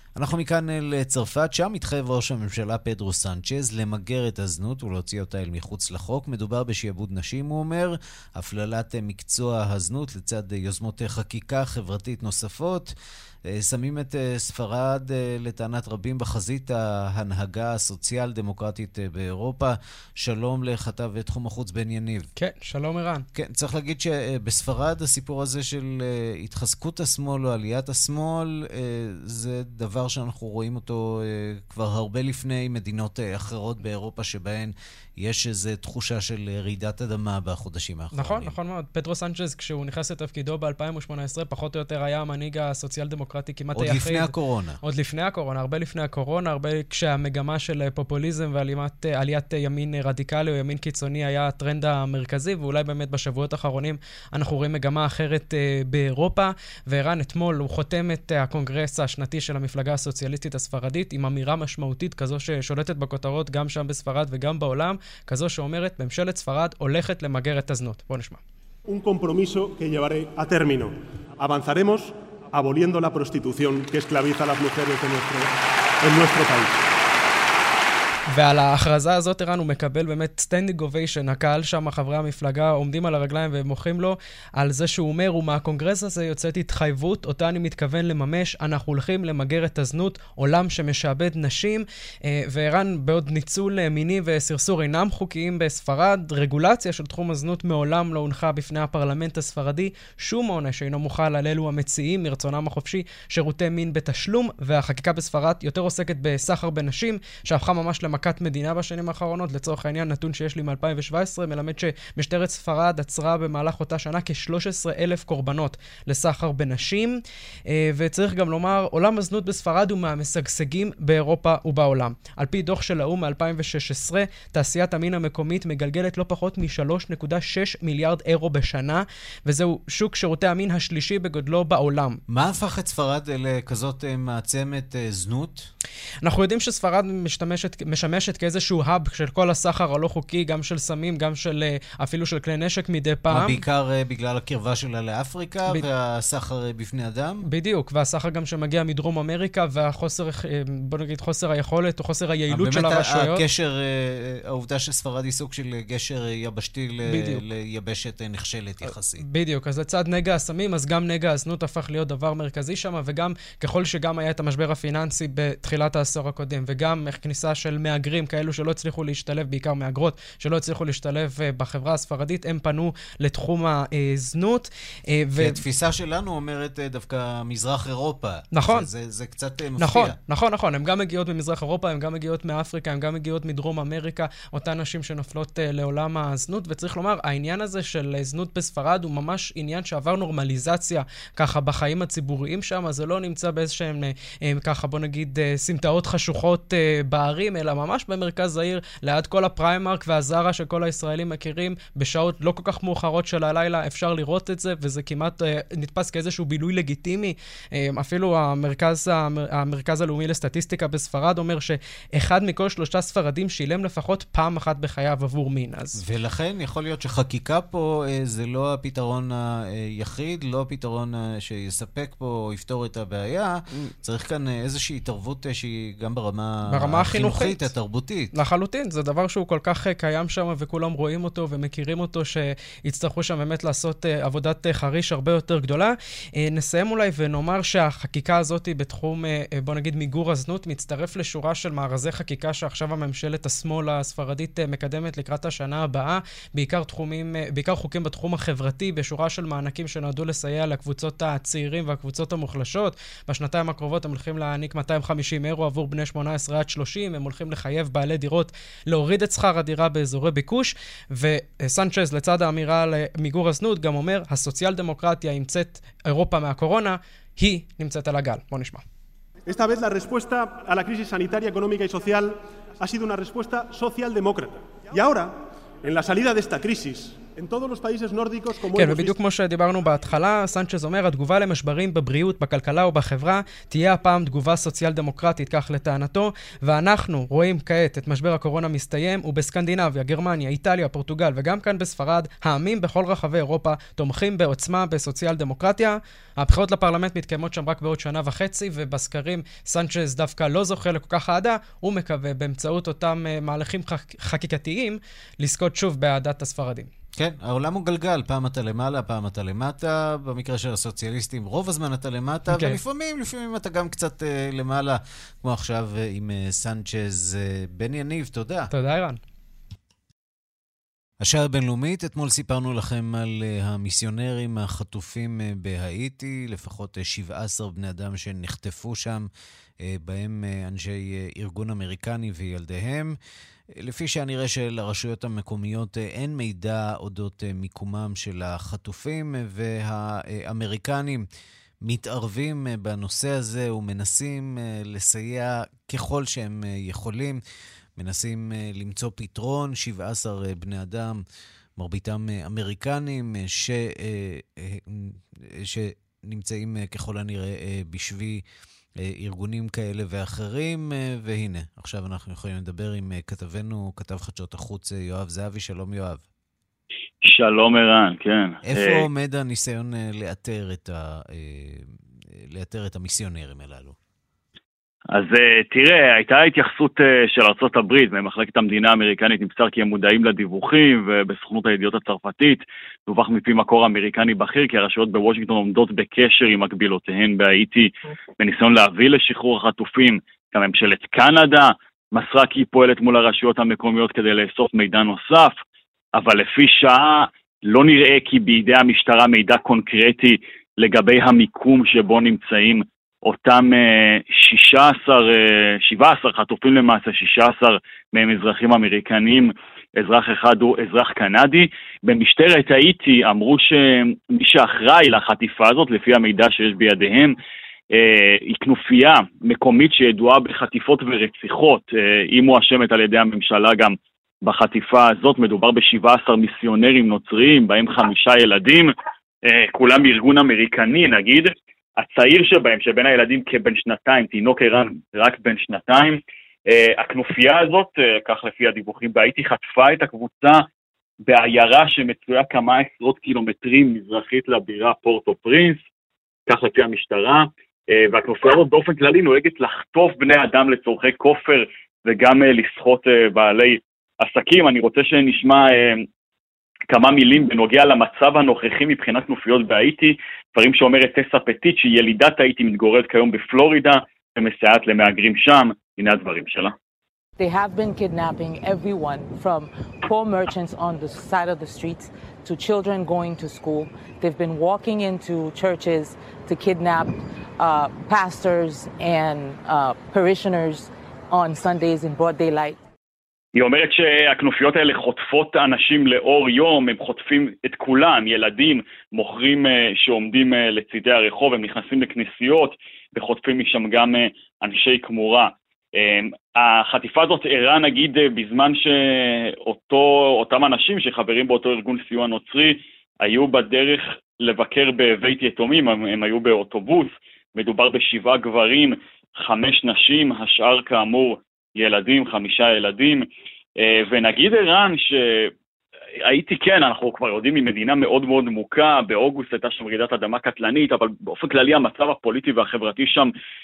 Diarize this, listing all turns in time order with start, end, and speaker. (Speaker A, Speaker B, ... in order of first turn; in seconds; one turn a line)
Speaker A: 0.2-12.9
Speaker A: 13.5-22.3
Speaker B: 22.4-23.3
Speaker A: 23.3-38.6
Speaker B: 38.1-68.4
Speaker A: 43.7-44.8
Speaker C: 68.9-75.5
Speaker C: 76.0-76.8
Speaker B: 78.3-132.2
Speaker A: 132.3-135.7
Speaker B: 136.2-143.6
Speaker A: 143.3-147.4
Speaker B: 147.5-153.4
Speaker A: 152.5-159.2
Speaker B: 157.1-157.4
Speaker B: 159.2-175.6
Speaker A: 175.4-180.2
Speaker B: 178.5-178.9
Speaker B: 179.8-216.0
Speaker A: 216.0-228.3
Speaker B: 226.7-227.7
Speaker B: 228.3-268.8
Speaker C: 269.5-279.1
Speaker B: 278.8-306.9
Speaker A: 307.2-318.7
Speaker B: 312.5-312.8
Speaker B: 318.7-319.2
Speaker A: 321.2-329.3
Speaker A: 329.8-333.1
Speaker A: 333.8-341.3
Speaker A: 341.9-347.4
Speaker A: 348.0-351.2
Speaker A: 351.8-358.4
Speaker A: 359.0-366.2
Speaker D: 367.2-369.1
Speaker A: 368.6-374.0
Speaker D: 375.1-395.6
Speaker D: 396.1-417.4
Speaker D: 417.9-428.9
Speaker D: 429.5-440.6
Speaker D: 441.2-445.8
Speaker D: 446.5-456.1
Speaker D: 456.9-466.7
Speaker E: 467.4-482.8
Speaker D: 483.6-513.2
Speaker D: 513.8-515.5
Speaker D: 516.3-523.3